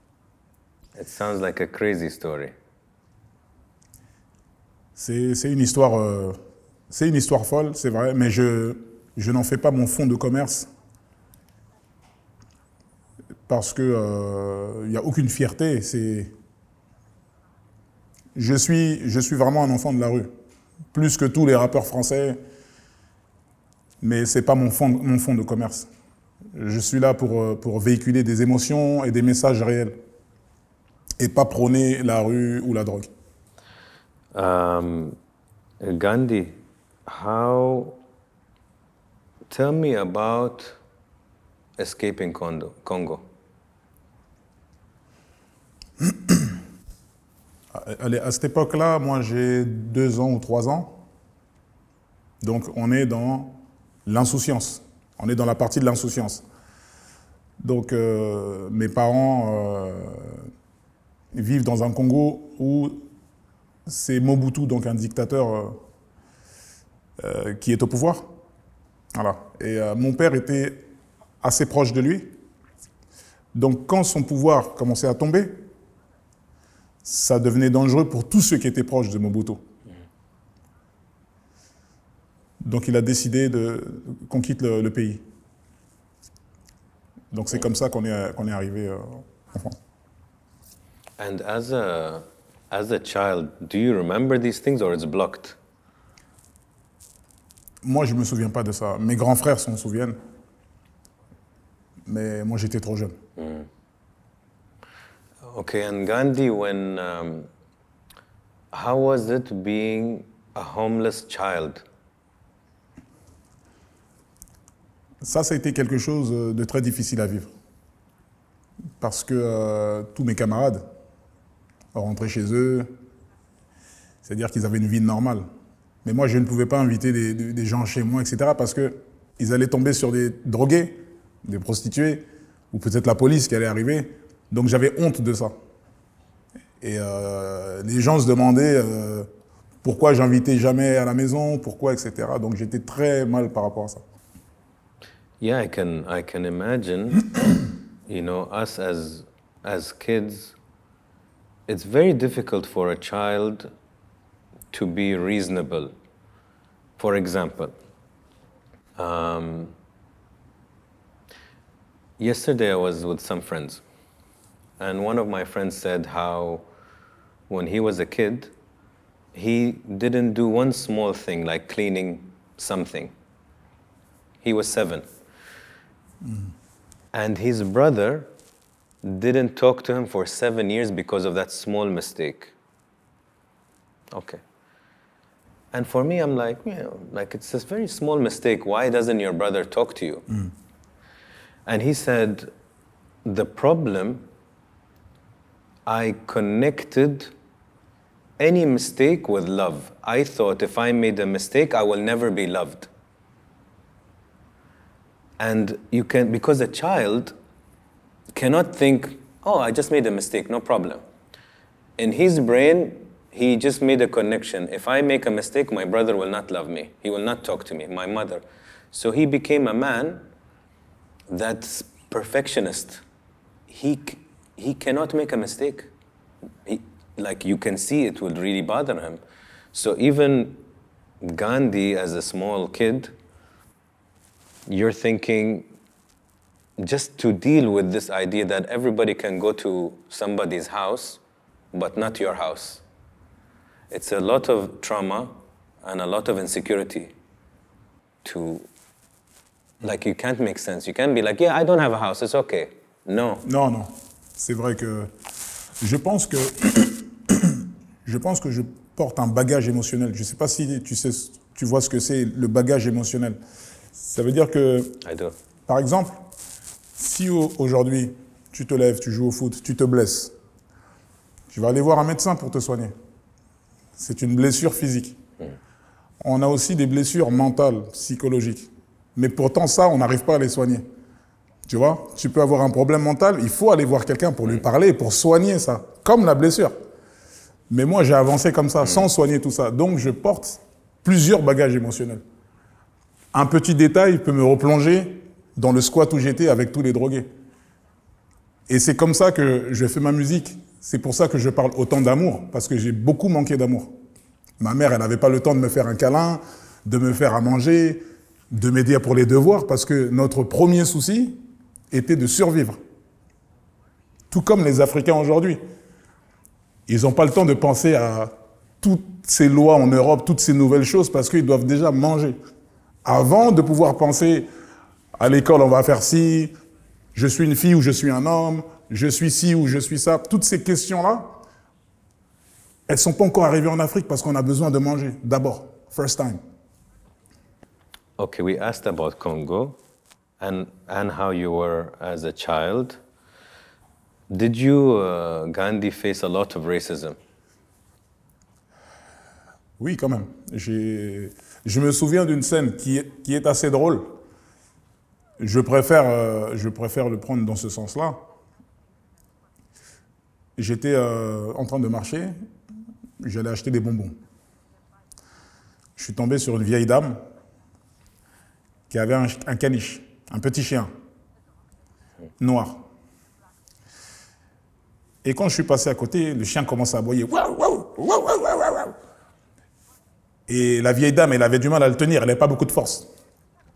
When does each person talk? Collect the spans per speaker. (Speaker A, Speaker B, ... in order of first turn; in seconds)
Speaker A: 0.9-2.5, 34.3-35.1, 35.8-36.5, 37.0-38.0, 39.5-40.8, 41.8-43.2, 91.2-95.6, 103.4-103.7, 105.4-107.5, 108.7-111.8, 145.4-147.4, 148.1-150.5, 151.7-153.7, 154.7-155.9, 157.0-157.8, 158.9-159.7, 162.2-163.8, 164.8-166.6, 167.5-168.5, 169.3-173.1, 174.4-175.1, 177.1-178.3, 179.0-182.5, 184.1-184.4, 185.7-190.3, 191.7-192.5, 193.2-194.2, 195.8-197.3, 198.4-202.9, 205.4-207.3, 208.3-211.0, 212.0-220.2, 221.3-223.0, 223.7-225.9, 226.6-229.2, 229.7-230.6, 231.2-233.1, 234.7-235.7, 236.8-241.2, 241.7-242.8, 243.9-247.1, 248.2-248.7, 249.8-253.4, 265.0-265.3, 338.2-339.8, 340.4-343.0, 344.3-347.2
Speaker B: 5.0-6.4, 6.9-10.7, 13.5-16.3, 18.3-20.3, 20.9-22.4, 24.0-25.9, 26.5-30.0, 31.2-33.1, 46.0-46.6, 47.7-51.0, 52.4-56.4, 57.6-60.5, 61.3-63.0, 63.9-65.8, 67.2-68.3, 69.1-70.8, 71.4-72.3, 73.5-75.7, 77.0-79.6, 82.6-85.2, 87.3-89.8, 97.8-100.2, 102.0-103.2, 115.2-117.5, 119.0-120.8, 121.9-122.9, 124.2-125.5, 126.0-135.5, 136.8-139.3, 139.8-144.0, 176.2-176.5, 253.4-255.1, 255.8-263.4, 263.9-265.0, 265.7-266.2, 266.9-270.3, 271.5-272.9, 274.0-275.2, 276.2-280.8, 281.6-286.7, 287.7-292.2, 293.3-297.3, 298.7-303.9, 304.6-311.4, 311.9-312.8, 314.3-315.6, 316.9-322.4, 323.0-324.5, 325.1-326.5, 327.1-331.4, 332.9-336.4, 349.8-354.2, 355.4-358.2, 360.6-362.3, 363.2-364.1, 366.0-367.2, 368.9-370.9, 372.4-372.9, 375.2-378.9, 380.5-383.1